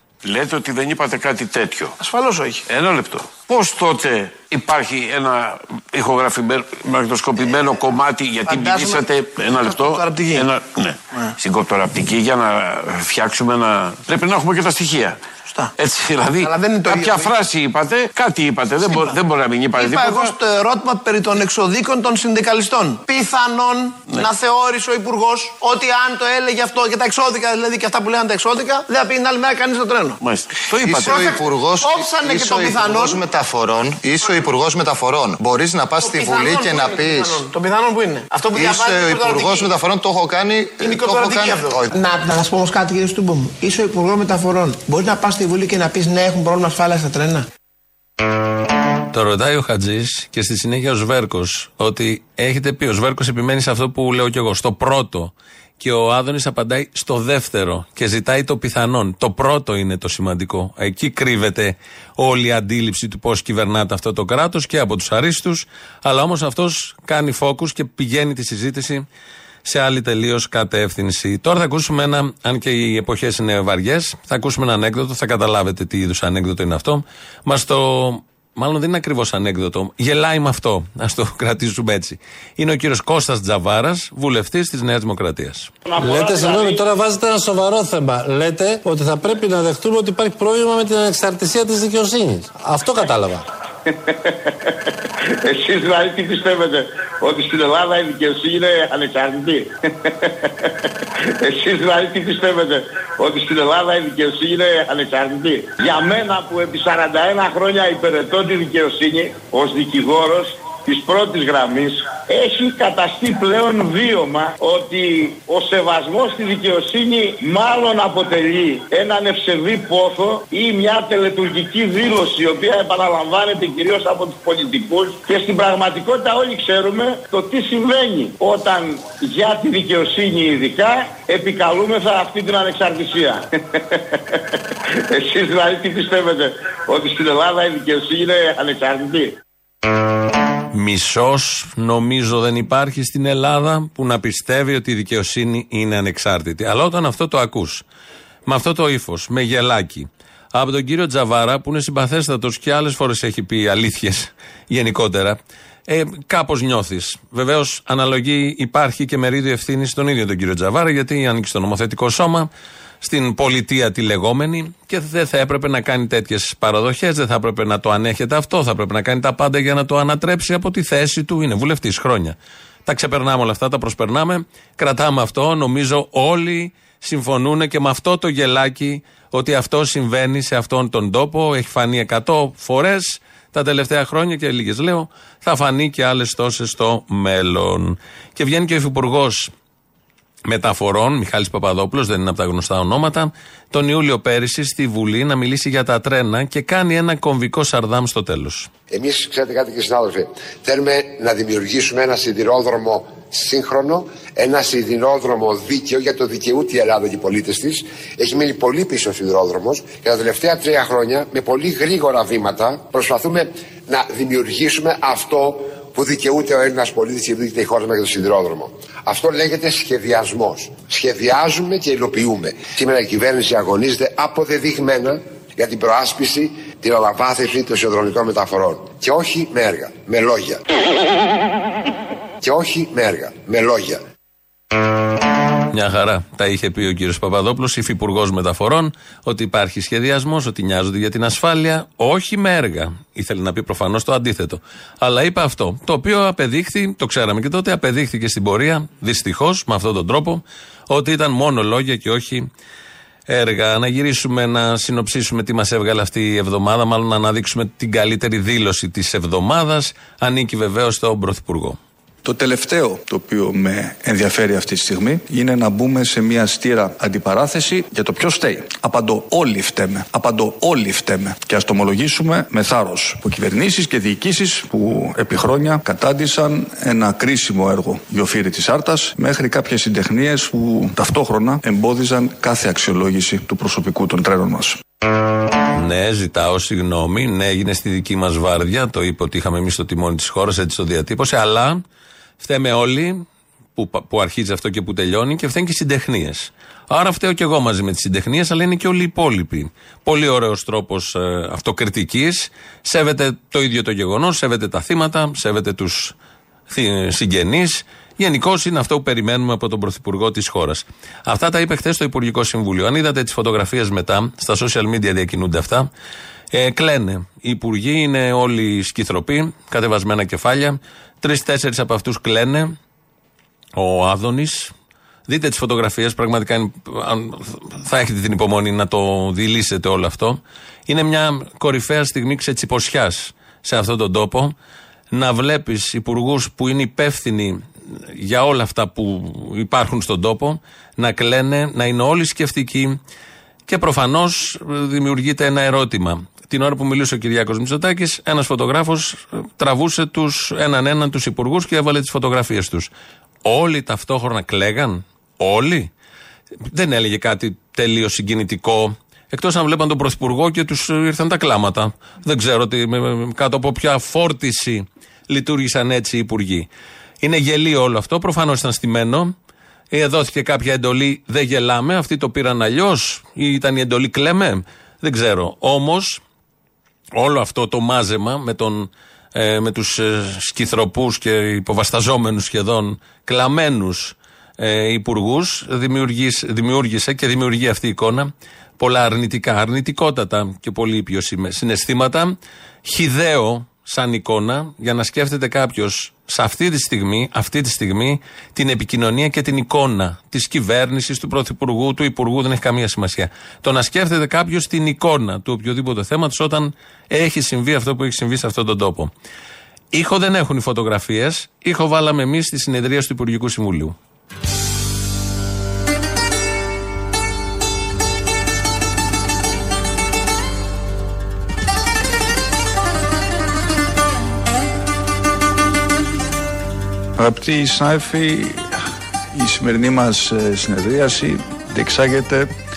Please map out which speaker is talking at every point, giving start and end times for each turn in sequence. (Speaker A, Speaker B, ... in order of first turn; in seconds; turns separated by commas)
Speaker A: 0.2-2.0, Speaker B: 2.0-2.6, Speaker A: 2.7-15.2, Speaker B: 8.5-9.0, Speaker B: 9.6-10.5, Speaker A: 15.8-20.3, Speaker B: 16.4-17.3, Speaker B: 18.9-19.1, Speaker B: 19.7-30.2, Speaker A: 30.2-31.3, Speaker C: 30.7-37.4, Speaker B: 30.9-33.2, Speaker B: 36.0-39.7, Speaker C: 38.5-41.9, Speaker B: 40.8-42.3, Speaker B: 43.3-47.4, Speaker D: 49.1-69.0, Speaker D: 69.7-85.7, Speaker E: 85.9-86.8, Speaker F: 86.0-93.4, Speaker E: 94.1-94.7, Speaker E: 95.4-100.7, Speaker E: 101.4-134.4, Speaker E: 135.1-139.4, Speaker D: 140.7-147.8, Speaker D: 148.5-162.5, Speaker D: 163.0-189.5, Speaker D: 190.5-198.7, Speaker G: 198.9-230.6, Speaker G: 232.4-234.0, Speaker D: 235.7-252.5, Speaker D: 253.3-261.8, Speaker H: 262.2-284.8, Speaker D: 285.7-291.8, Speaker D: 292.4-293.2, Speaker D: 293.8-306.1, Speaker D: 306.7-315.9, Speaker D: 316.5-322.7, Speaker D: 323.8-324.7, Speaker D: 325.3-334.5, Speaker D: 335.1-343.0, Speaker D: 343.7-352.9, Speaker D: 353.4-355.9, Speaker D: 356.7-366.7, Speaker D: 367.2-369.3, Speaker D: 369.9-376.2, Speaker D: 377.2-409.1, Speaker D: 409.9-414.0, Speaker H: 427.2-428.8, Speaker H: 429.3-432.5